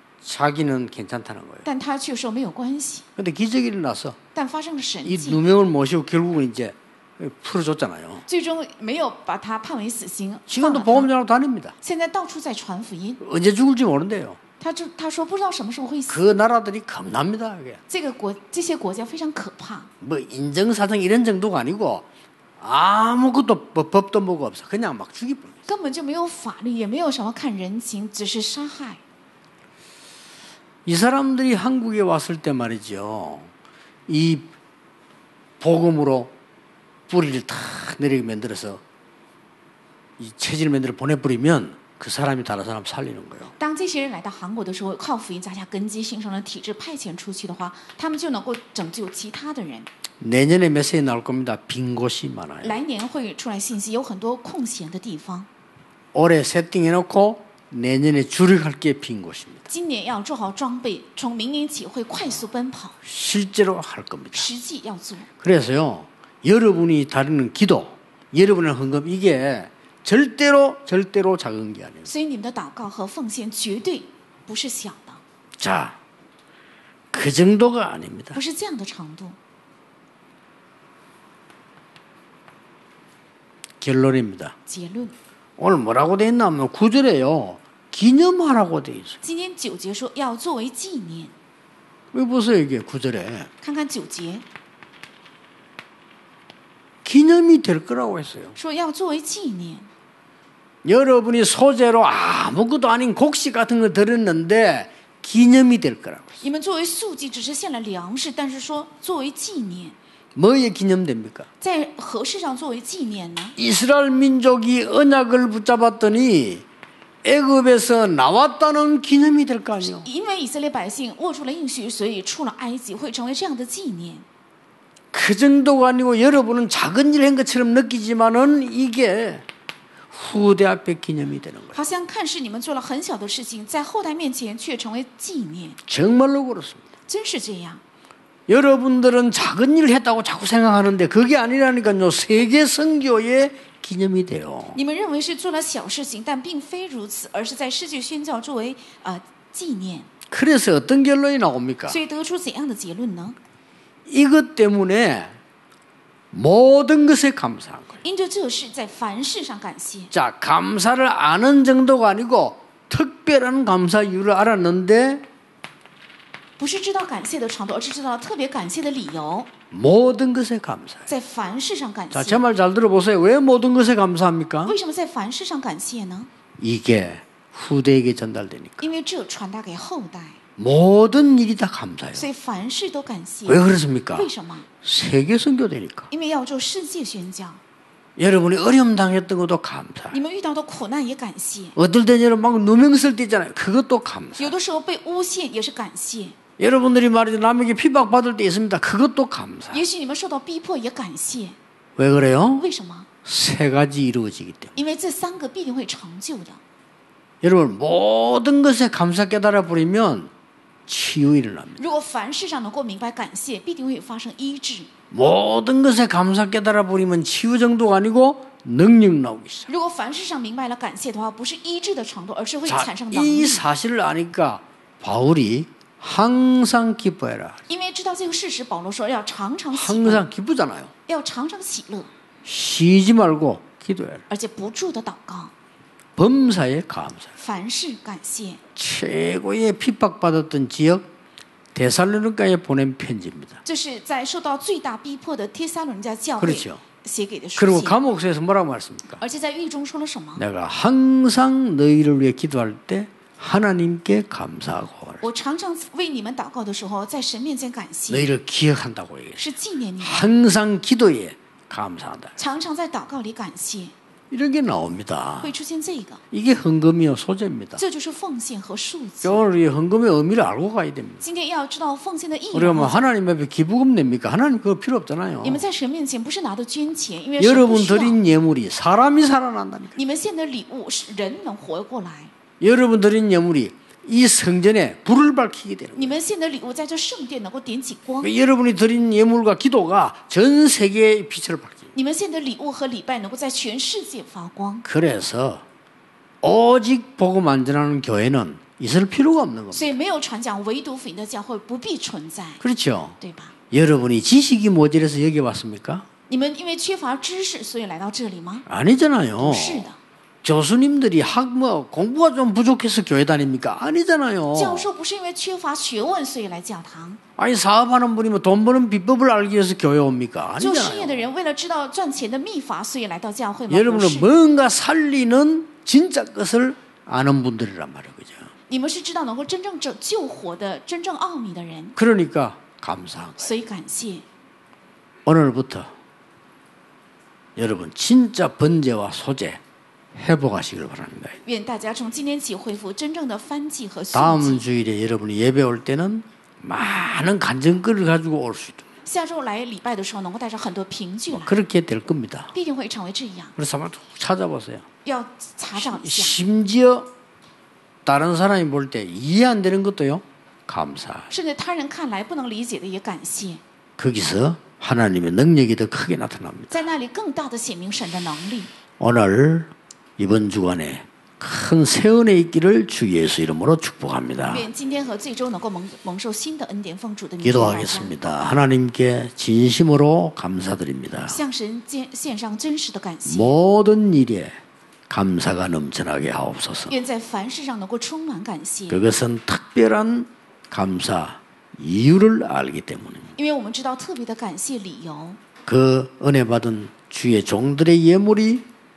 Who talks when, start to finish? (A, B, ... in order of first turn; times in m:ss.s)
0:00.2-0:01.6 A
0:01.6-0:03.0 B
0:03.2-0:04.2 A
0:04.3-0:05.4 B
0:05.0-0:08.2 A
0:08.3-0:11.1 B
0:10.5-0:11.7 A
0:11.8-0:13.2 B
0:13.2-0:14.4 A
0:14.6-0:16.2 B
0:16.1-0:17.8 A
0:17.9-0:19.9 B
0:20.0-0:22.0 A
0:22.6-0:25.6 A
0:25.7-0:29.0 B
0:30.8-0:33.5 A
0:34.1-0:34.5 A
0:35.6-0:36.3 A
0:37.1-0:38.8 A
0:40.2-0:43.5 A
0:43.6-0:49.9 B
0:50.2-0:52.8 A
0:52.6-0:55.5 B
0:56.1-0:59.6 A
0:59.7-1:03.0 B
1:03.0-1:04.5 A
1:04.3-1:05.3 B
1:05.4-1:12.1 A
1:12.0-1:15.2 B
1:15.6-1:16.0 A
1:17.1-1:18.4 A
1:18.3-1:19.4 B
1:23.8-1:24.5 A
1:24.7-1:25.1 B
1:25.6-1:29.2 A
1:29.2-1:31.3 B
1:32.1-1:33.5 A
1:33.6-1:34.4 B
1:37.0-1:38.6 A
1:38.6-1:39.9 B
1:40.8-1:46.4 A
1:46.4-1:50.0 B
1:50.3-1:51.5 A
1:51.6-1:53.5 B
1:53.6-1:56.6 A
1:57.2-2:00.1 A
1:59.8-2:04.2 B
2:05.1-2:09.4 A
2:10.1-2:11.8 A
2:11.7-2:15.8 B
2:15.8-2:16.8 A
2:17.1-2:17.8 B
2:18.5-2:24.8 A
2:24.7-2:30.1 B
2:30.3-2:32.0 A
2:31.9-2:33.4 B
2:34.1-2:35.4 A
2:36.3-2:38.0 A
2:38.0-2:40.1 B
2:40.1-2:45.2 A
2:46.6-2:49.5 B
2:49.7-2:51.1 A
2:51.1-2:52.4 B
2:52.1-2:54.8 A
2:54.6-2:56.3 B
2:56.6-2:58.9 A
2:58.8-3:00.4 B
3:00.6-3:02.2 A
3:02.1-3:04.7 B
3:03.4-3:04.3 A
3:04.8-3:06.1 A
3:06.1-3:07.6 B
3:08.2-3:10.2 A
3:10.1-3:11.8 B
3:11.8-3:14.5 A
3:14.4-3:16.4 B
3:16.6-3:19.8 A
3:19.7-3:21.6 B
3:22.0-3:22.6 A
3:22.6-3:23.1 B
3:23.2-3:24.7 A
3:24.8-3:26.6 B
3:27.4-3:30.3 A
3:30.9-3:31.8 A
3:31.8-3:34.9 B
3:35.1-3:39.7 A
3:39.7-3:43.6 B
3:42.7-3:47.6 A
3:47.7-3:50.2 B
3:49.7-3:50.9 A
3:51.1-3:52.1 B
3:52.4-3:54.2 A
3:54.3-3:55.5 B
3:56.2-3:57.3 A
3:57.4-3:58.6 B
3:58.8-4:01.0 A
4:01.7-4:03.6 A
4:03.6-4:08.0 B
4:06.4-4:06.8 A
4:07.6-4:09.2 A
4:09.2-4:10.4 B
4:10.4-4:15.2 A
4:15.2-4:18.3 B
4:18.1-4:19.5 A
4:19.4-4:20.3 B
4:20.0-4:22.3 A
4:22.4-4:23.9 B
4:24.3-4:25.5 A
4:25.4-4:26.2 B
4:26.3-4:27.8 A
4:27.8-4:29.4 B
4:29.2-4:31.2 A
4:31.2-4:33.1 B
4:32.5-4:35.6 A
4:35.4-4:38.2 B
4:37.4-4:40.0 A
4:40.0-4:42.3 B
4:42.6-4:46.2 A
4:45.9-4:48.3 B
4:48.2-4:51.9 A
4:51.9-4:54.8 B
4:54.8-4:55.6 A
4:56.4-4:59.9 A
4:59.7-5:02.6 B
5:02.6-5:03.2 A
5:03.2-5:03.6 B
5:03.7-5:06.0 A
5:06.3-5:08.6 B
5:08.7-5:09.9 A
5:09.4-5:10.0 B
5:10.4-5:14.9 A
5:14.5-5:17.2 B
5:17.4-5:21.3 A
5:20.6-5:24.3 B
5:23.7-5:28.5 A
5:28.7-5:32.0 B
5:32.0-5:33.5 A
5:33.4-5:34.2 B
5:35.2-5:35.9 A
5:37.6-5:39.6 A
5:40.1-5:41.4 A
5:41.4-5:44.6 B
5:44.1-5:48.8 A
5:49.0-5:51.6 B
5:51.3-5:52.5 A
5:52.5-5:53.5 B
5:53.6-5:54.8 A
5:55.0-5:56.4 B
5:55.8-5:57.1 A
5:58.0-6:01.3 A
6:01.3-6:03.6 B
6:04.0-6:06.8 A
6:06.7-6:08.7 B
6:09.0-6:14.7 A
6:14.5-6:18.4 B
6:17.4-6:21.4 A
6:21.3-6:23.6 B
6:23.2-6:24.6 A
6:25.1-6:27.0 A
6:26.9-6:29.0 B
6:28.9-6:33.4 A
6:33.4-6:35.4 B
6:35.6-6:38.6 A